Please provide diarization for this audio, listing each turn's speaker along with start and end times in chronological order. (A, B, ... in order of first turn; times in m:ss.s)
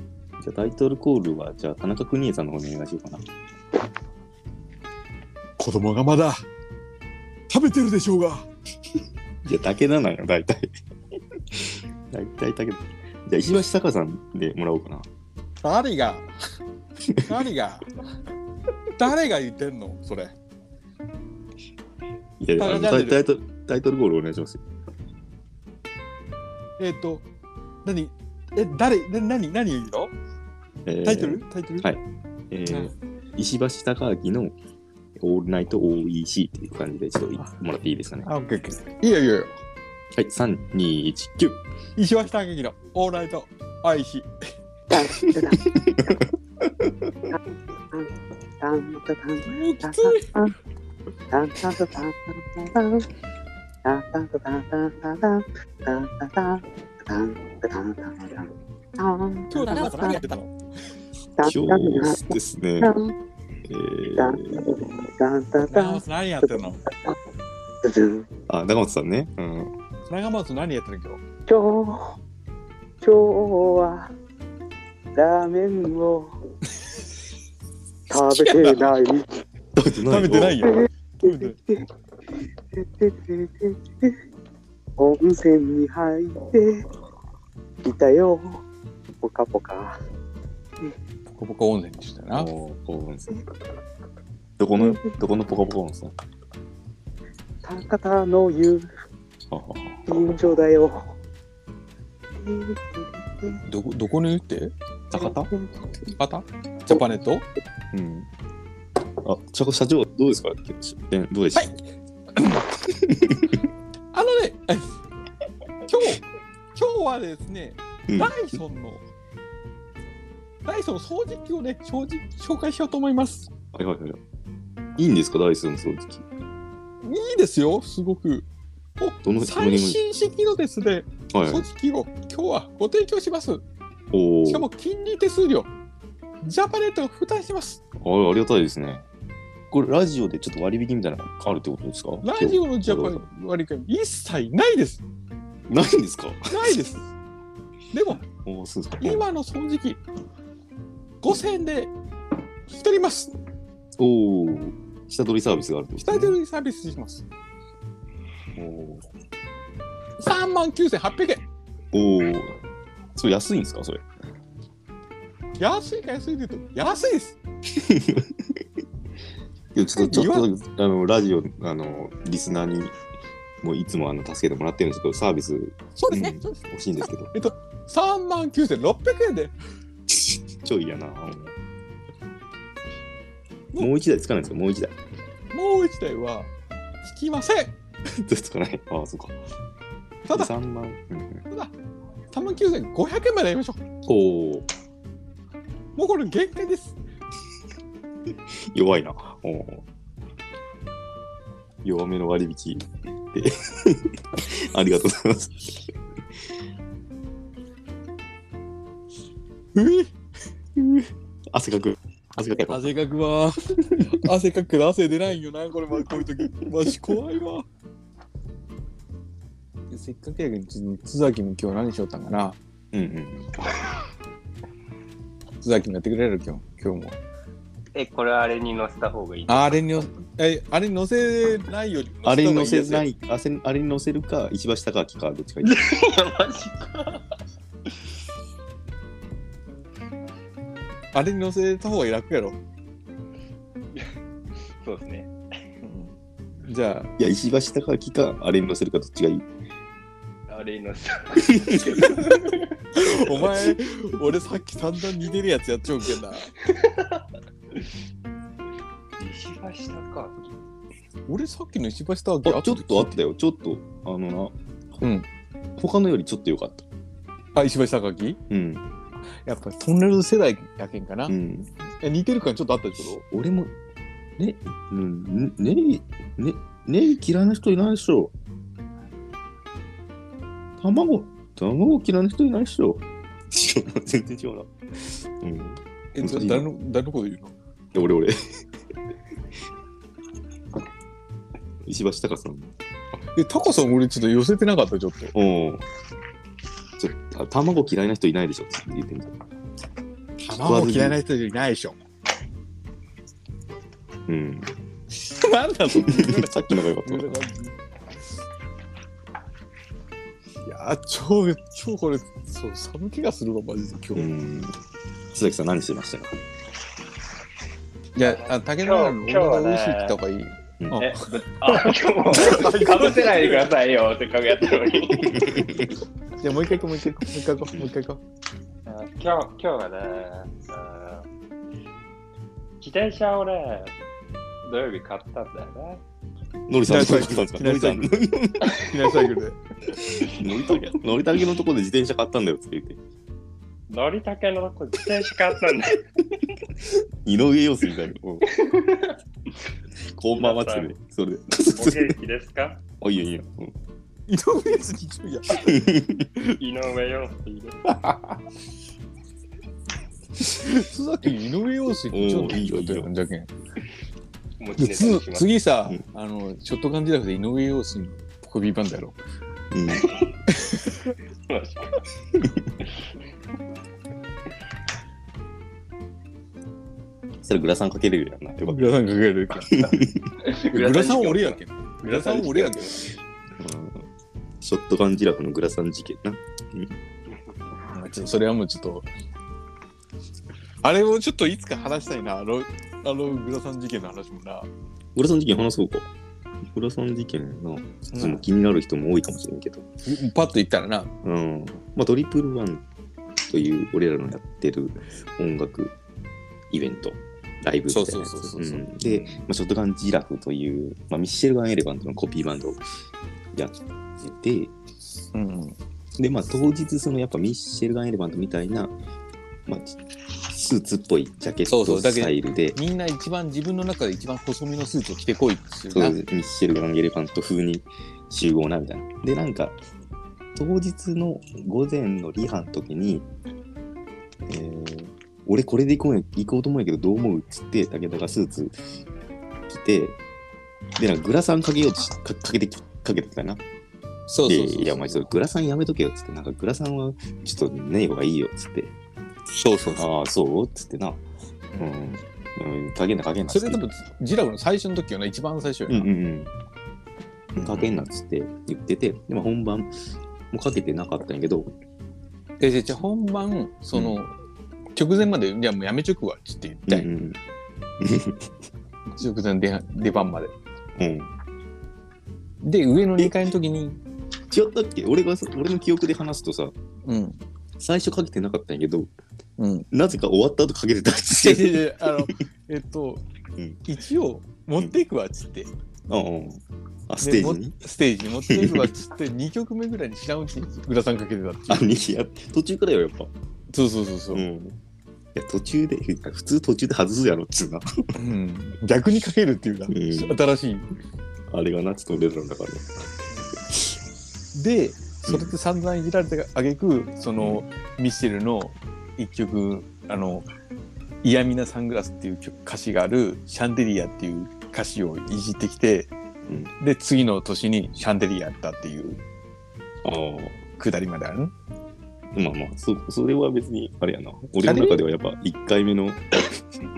0:00.4-0:03.2 A
0:05.6-0:06.4 B
0:07.5-0:08.5 B
0:09.4-0:10.7 A
0:11.5-0:15.1 A
0:15.6-0:16.3 B
0:17.2-0:17.9 B
0:19.0-0:20.3 B
0:22.4-0:24.6 A
0:22.6-0:23.2 B
0:26.8-0:27.2 B
0:27.8-0:30.1 B
0:30.8-0:34.5 A
0:31.0-0:31.9 B
0:32.7-0:32.9 B
0:35.2-0:38.3 A
0:38.2-0:39.6 B
0:40.1-0:41.6 A
0:42.0-0:44.3 B
0:44.9-0:45.6 C
0:45.2-0:47.2 A
0:47.9-0:50.5 C
0:49.5-0:50.4 B
0:51.3-0:53.1 C
0:53.8-1:00.2 C
0:59.5-1:00.5 B
1:01.4-1:03.1 C
1:01.4-1:02.9 A
1:03.6-1:04.8 A
1:04.2-1:07.2 C
1:05.7-1:06.8 B
1:07.8-1:08.3 C
1:08.5-1:09.7 A
1:10.1-1:11.2 B
1:11.5-1:12.2 C
1:13.0-1:14.1 C
1:15.1-1:16.4 C
1:18.1-1:18.9 B
1:18.1-1:19.3 C
1:19.7-1:20.7 A
1:20.0-1:21.6 B
1:20.7-1:21.8 C
1:22.7-1:24.2 C
1:25.0-1:26.8 C
1:27.8-1:28.6 C
1:29.2-1:30.0 C
1:31.3-1:32.5 B
1:32.3-1:33.4 A
1:34.6-1:36.2 A
1:34.8-1:35.1 C
1:37.6-1:38.9 C
1:39.5-1:40.0 A
1:40.1-1:41.1 C
1:42.4-1:43.6 C
1:43.6-1:44.7 B
1:45.1-1:45.5 A
1:45.1-1:45.9 C
1:46.2-1:47.4 B
1:47.9-1:48.3 A
1:49.2-1:51.8 A
1:52.4-1:52.6 B
1:52.8-1:53.6 A
1:54.1-1:55.0 B
1:55.9-1:56.2 B
1:56.7-1:59.0 B
1:58.1-1:58.4 A
2:00.6-2:03.5 B
2:03.7-2:04.2 A
2:05.0-2:06.2 A
2:07.0-2:08.5 B
2:09.0-2:13.6 B
2:09.2-2:10.0 A
2:11.3-2:11.7 A
2:14.1-2:14.7 A
2:14.4-2:15.7 B
2:16.4-2:17.8 B
2:18.0-2:19.0 A
2:19.7-2:23.2 A
2:22.2-2:25.0 B
2:25.7-2:26.6 A
2:26.5-2:27.1 B
2:27.9-2:28.2 B
2:28.2-2:29.3 A
2:29.0-2:30.0 B
2:31.2-2:31.9 B
2:32.7-2:33.3 B
2:34.0-2:36.4 A
2:36.0-2:37.2 B
2:38.6-2:39.0 A
2:40.2-2:41.4 B
2:41.9-2:42.5 A
2:43.2-2:44.0 A
2:45.6-2:47.4 B
2:47.7-2:48.6 A
2:49.7-2:52.9 A
2:50.0-2:50.5 B
2:53.6-2:57.3 A
2:56.0-2:56.5 B
2:57.3-2:59.5 B
3:00.1-3:01.5 A
3:03.8-3:05.0 A
3:05.5-3:06.5 B
3:07.0-3:07.7 B
3:08.1-3:09.4 A
3:10.3-3:10.5 B
3:10.3-3:11.4 A
3:12.3-3:13.8 B
3:14.0-3:14.7 A
3:16.0-3:17.0 B
3:18.7-3:19.8 A
3:21.8-3:25.9 A
3:29.7-3:30.1 B
3:30.8-3:32.9 A
3:32.7-3:37.6 B
3:39.9-3:42.6 B
3:42.9-3:43.6 A
3:45.6-3:47.2 B
3:47.9-3:49.9 D
3:49.5-3:53.0 B
3:52.2-3:55.9 A
3:55.6-3:57.3 D
4:01.1-4:02.6 B
4:04.6-4:05.3 D
4:05.8-4:07.1 B
4:07.2-4:09.4 A
4:10.5-4:12.8 D
4:11.4-4:12.0 A
4:12.9-4:16.5 B
4:16.6-4:17.2 D
4:19.2-4:20.5 D
4:21.3-4:23.2 B
4:22.4-4:25.0 A
4:25.8-4:26.8 A
4:27.5-4:28.4 B
4:28.5-4:28.8 A
4:29.4-4:31.3 B
4:31.3-4:31.7 A
4:32.0-4:33.2 B
4:33.3-4:33.7 A
4:34.4-4:38.3 A
4:40.8-4:46.7 A
4:46.1-4:47.5 B
4:47.9-4:48.4 A
4:51.8-4:52.7 A
4:53.3-4:55.3 B
4:55.3-4:55.8 A
4:57.0-4:59.4 A
5:00.4-5:02.0 B
5:00.5-5:01.2 A
5:04.3-5:04.7 A
5:05.2-5:07.8 B
5:05.9-5:07.3 A
5:10.6-5:14.3 B
5:14.1-5:14.8 A
5:15.3-5:16.4 A
5:18.1-5:23.7 B
5:18.2-5:20.2 D
5:20.8-5:21.0 A
5:21.0-5:25.7 D
5:25.2-5:25.9 A
5:26.4-5:28.2 B
5:28.8-5:31.2 D
5:32.8-5:33.9 D
5:34.6-5:36.0 D
5:36.7-5:38.8 A
5:36.9-5:39.6 B
5:40.2-5:43.0 A
5:40.2-5:40.8 D
5:43.9-5:46.0 D
5:47.2-5:48.5 A
5:48.5-5:49.2 D
5:50.1-5:52.2 A
5:50.4-5:50.9 D
5:51.7-5:52.8 D
5:53.0-5:53.7 A
5:54.3-5:55.6 B
5:55.5-5:56.3 A
5:56.5-5:57.8 D
6:00.4-6:03.5 B
6:02.1-6:03.1 A
6:04.6-6:05.5 D
6:04.8-6:09.2 B
6:09.7-6:10.1 A
6:09.9-6:10.3 D
6:10.5-6:10.9 B
6:11.5-6:12.0 D
6:12.4-6:12.7 A
6:17.4-6:18.9 A
6:18.6-6:20.0 B
6:19.7-6:20.3 A
6:20.4-6:23.0 D
6:20.7-6:23.0 B
6:23.6-6:24.1 A
6:24.6-6:27.0 A
6:27.9-6:29.1 B
6:30.8-6:34.7 B
6:35.1-6:36.1 A
6:36.6-6:39.8 A
6:38.1-6:38.4 B
6:40.0-6:41.1 B
6:41.2-6:42.8 A
6:43.5-6:45.9 A
6:46.7-6:52.8 A
6:47.9-6:49.4 B
6:53.5-6:54.7 A
6:55.3-6:55.8 B
6:56.2-6:58.9 A
6:59.7-7:02.8 A
7:01.7-7:06.2 B
7:05.9-7:09.8 A
7:10.5-7:13.3 A
7:14.5-7:18.7 A
7:19.7-7:20.2 A
7:21.0-7:23.6 A
7:24.3-7:25.3 B
7:24.4-7:28.9 A
7:29.5-7:30.1 B
7:30.0-7:31.2 A
7:31.8-7:33.8 A
7:33.5-7:36.1 B
7:35.9-7:36.5 A
7:37.6-7:39.9 A
7:37.6-7:38.0 B
7:40.5-7:41.7 A
7:42.6-7:44.4 B
7:44.9-7:47.1 B
7:46.9-7:47.4 A
7:48.0-7:48.5 A
7:49.1-7:50.5 B
7:51.0-7:51.3 A
7:52.6-7:54.0 B
7:54.5-7:56.7 A
7:57.0-7:57.4 B
7:57.8-7:59.1 A
7:59.6-7:59.9 B
7:59.9-8:02.3 A
8:01.4-8:03.2 B
8:03.6-8:03.8 A
8:03.8-8:05.7 B
8:06.1-8:07.8 A
8:07.2-8:11.9 B
8:08.5-8:08.9 A
8:11.7-8:13.3 A
8:13.7-8:14.4 B
8:14.3-8:14.8 A
8:15.3-8:17.9 A
8:18.2-8:20.9 B
8:19.9-8:20.4 A
8:21.5-8:22.9 A
8:23.7-8:24.0 A
8:24.5-8:30.5 B
8:25.3-8:25.5 A
8:27.4-8:27.6 A
8:31.2-8:36.1 B
8:36.5-8:36.7 A
8:36.8-8:39.2 B
8:40.0-8:40.6 A
8:40.8-8:41.5 B
8:42.3-8:46.4 A
8:44.6-8:45.0 B